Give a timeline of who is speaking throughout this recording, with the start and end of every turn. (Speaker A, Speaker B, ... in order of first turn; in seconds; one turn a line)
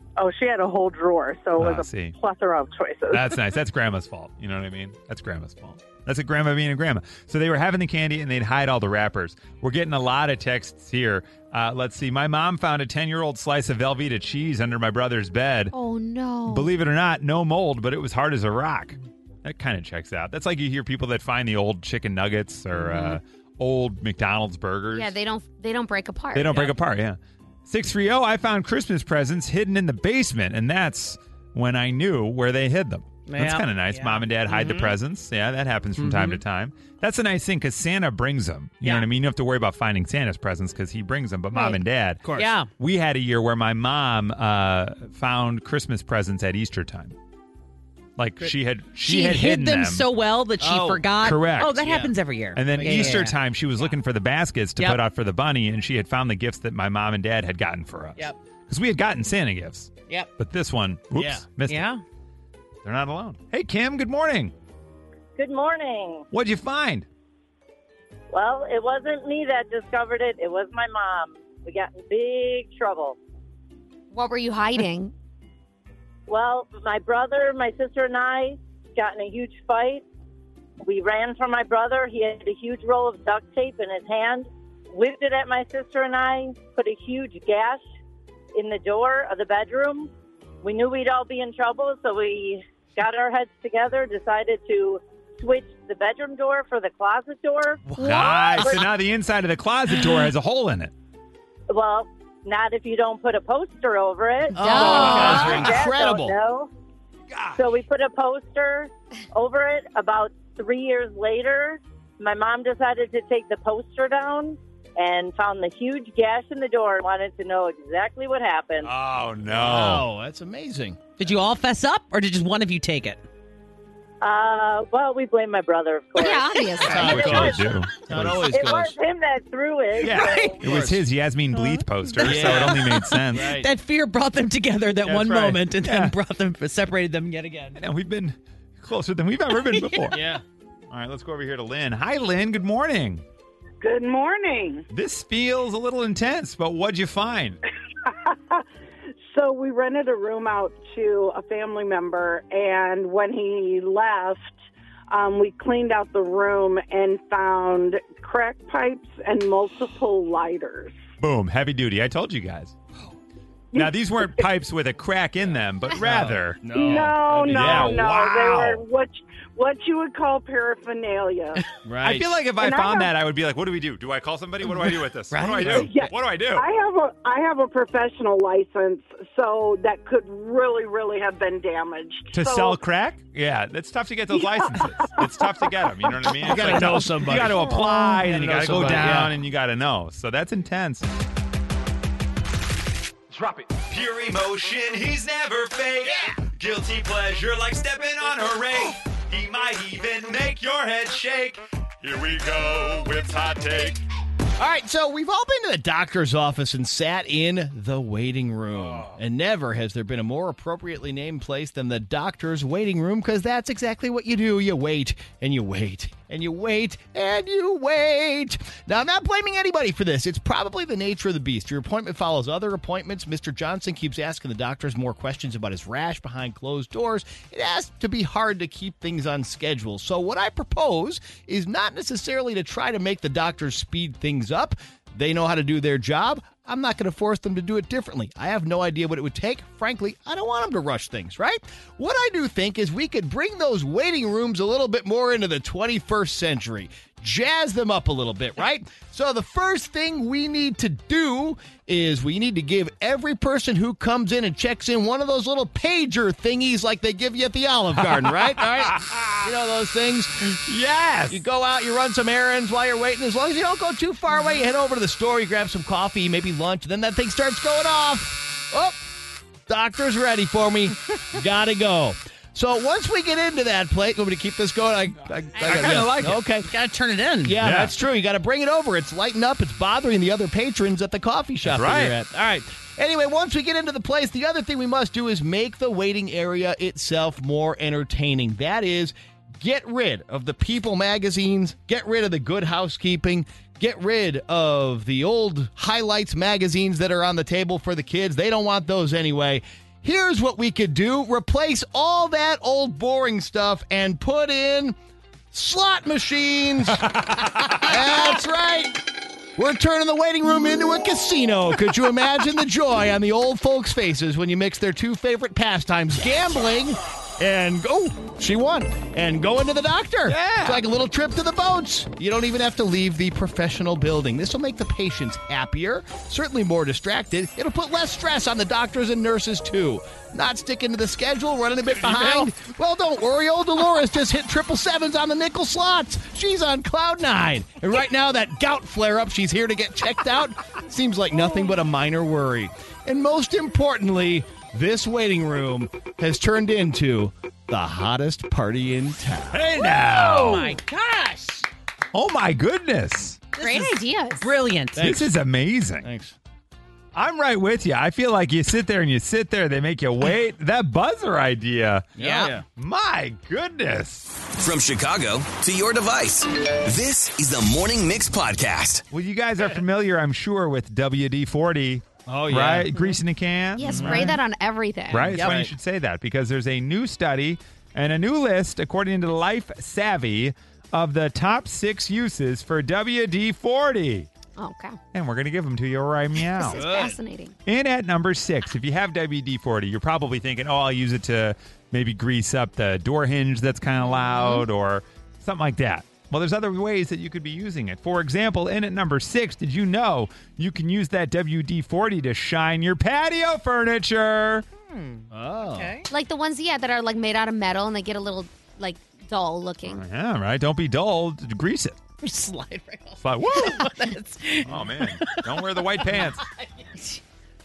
Speaker A: 0.2-3.4
Speaker B: 1.6-2.1
Speaker B: 3.1-15.7
Speaker C: 15.7-16.7
Speaker B: 16.5-25.1
Speaker D: 22.7-23.2
Speaker C: 24.9-26.7
Speaker B: 26.3-42.2
Speaker D: 33.3-34.8
Speaker E: 34.5-34.9
Speaker D: 36.0-36.4
Speaker E: 42.2-42.5
Speaker D: 42.4-42.7
Speaker B: 42.8-47.1
Speaker B: 48.2-50.1
Speaker D: 48.4-53.4
Speaker E: 50.6-51.1
Speaker B: 51.2-51.9
Speaker E: 51.8-52.1
Speaker B: 52.5-61.9
Speaker E: 52.7-53.3
Speaker E: 61.1-61.5
Speaker D: 61.7-62.0
Speaker B: 62.8-64.5
Speaker F: 65.4-66.2
Speaker B: 66.3-67.1
Speaker F: 68.3-73.2
Speaker C: 74.1-75.1
Speaker F: 76.3-80.0
Speaker F: 80.8-87.8
Speaker F: 88.5-90.1
Speaker F: 90.6-97.8
Speaker B: 98.0-100.9
Speaker C: 98.0-98.7
Speaker F: 101.7-106.7
Speaker C: 104.5-105.7
Speaker E: 104.6-106.3
Speaker B: 104.8-105.7
Speaker B: 107.3-107.6
Speaker F: 107.6-118.9
Speaker B: 118.8-120.1
Speaker E: 119.5-121.0
Speaker D: 121.2-123.2
Speaker F: 124.2-127.6
Speaker C: 126.2-127.5
Speaker E: 126.8-129.0
Speaker B: 126.8-128.5
Speaker F: 128.5-130.6
Speaker B: 130.0-133.5
Speaker D: 130.0-130.6
Speaker E: 130.3-131.0
Speaker D: 131.5-137.8
Speaker E: 132.2-133.7
Speaker B: 135.1-136.2
Speaker B: 137.8-140.2
Speaker D: 139.7-140.0
Speaker E: 140.1-140.4
Speaker B: 140.9-143.2
Speaker G: 143.8-144.8
Speaker B: 144.9-147.6
Speaker G: 148.1-148.6
Speaker G: 149.3-154.6
Speaker G: 155.1-161.0
Speaker B: 161.2-162.8
Speaker G: 163.7-164.0
Speaker B: 163.7-168.8
Speaker E: 166.0-168.1
Speaker G: 166.7-171.6
Speaker E: 171.8-172.4
Speaker B: 172.0-176.7
Speaker G: 172.6-173.1
Speaker D: 174.8-176.0
Speaker G: 175.8-182.8
Speaker B: 182.3-191.1
Speaker G: 184.3-186.5
Speaker E: 186.4-189.3
Speaker B: 193.3-204.0
Speaker E: 196.1-196.4
Speaker E: 204.6-260.6
Speaker B: 208.8-209.2
Speaker B: 258.0-259.5
Speaker B: 260.6-261.4
Speaker E: 261.3-269.0
Speaker E: 269.7-276.7
Speaker D: 275.6-277.6
Speaker B: 275.6-276.4
Speaker E: 277.4-305.0
Speaker B: 277.6-277.9
Speaker B: 281.6-282.1
Speaker E: 305.5-309.0
Speaker E: 309.6-349.7
Speaker B: 320.3-320.8
Speaker B: 332.0-332.5
Speaker B: 349.5-350.8
Speaker D: 349.9-351.7
Speaker B: 352.1-353.4
Speaker D: 353.6-355.1
Speaker E: 355.0-355.3
Speaker B: 355.0-356.1
Speaker E: 356.0-356.4
Speaker B: 357.1-362.1
Speaker E: 362.2-362.6
Speaker D: 362.2-362.6
Speaker B: 362.7-364.3
Speaker H: 364.6-369.0
Speaker B: 369.1-374.3
Speaker E: 372.3-373.2
Speaker C: 373.8-375.4
Speaker E: 373.8-374.4
Speaker B: 375.1-384.3
Speaker D: 375.3-375.7
Speaker E: 375.4-375.7
Speaker C: 384.6-385.0
Speaker B: 385.1-386.8
Speaker C: 386.5-387.5
Speaker E: 386.7-387.2
Speaker B: 387.7-404.7
Speaker C: 394.2-394.7
Speaker D: 404.9-406.1
Speaker E: 405.3-406.0
Speaker C: 406.1-410.0
Speaker B: 409.9-412.0
Speaker D: 412.2-417.2
Speaker B: 413.2-413.9
Speaker B: 414.7-416.4